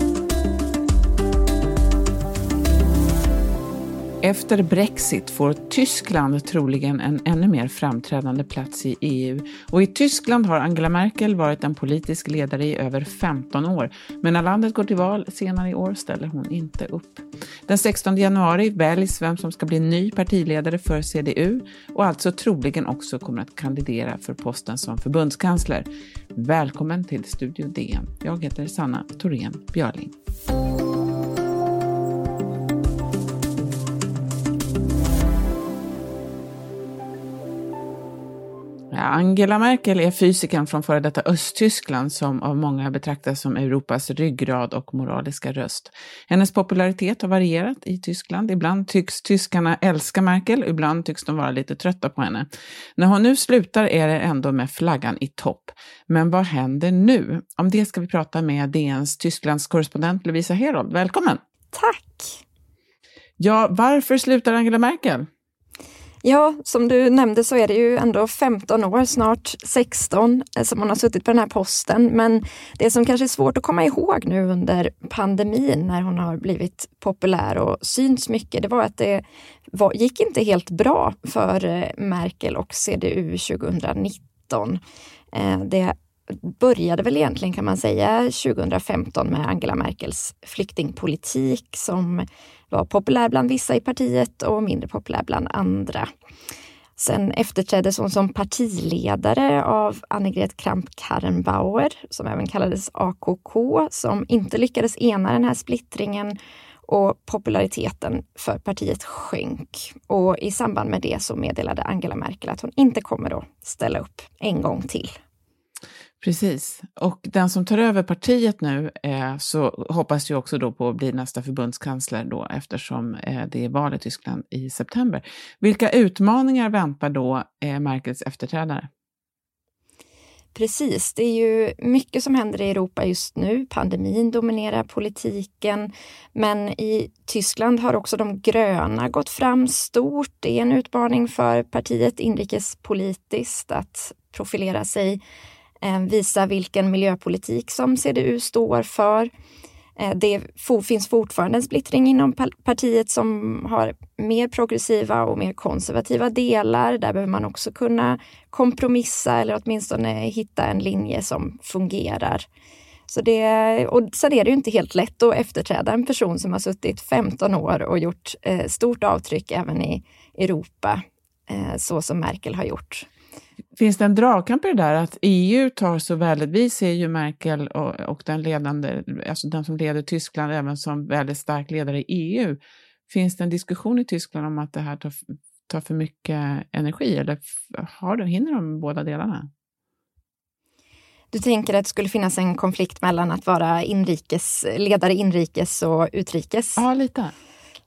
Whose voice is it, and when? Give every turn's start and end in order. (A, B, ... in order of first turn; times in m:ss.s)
0:04.2-0:30.1 A
0:38.9-1:01.4 A
1:01.7-1:02.4 B
1:03.4-1:05.3 A
1:06.2-1:24.8 B
1:25.3-1:36.1 B
1:37.0-1:46.4 B
1:46.9-1:55.1 B
1:56.2-2:08.9 A
2:10.5-2:25.2 B
2:25.8-2:29.3 B
2:30.0-2:42.4 B
2:43.1-2:53.1 B
2:53.8-3:09.5 A
3:11.3-3:16.8 B
3:16.8-3:17.3 A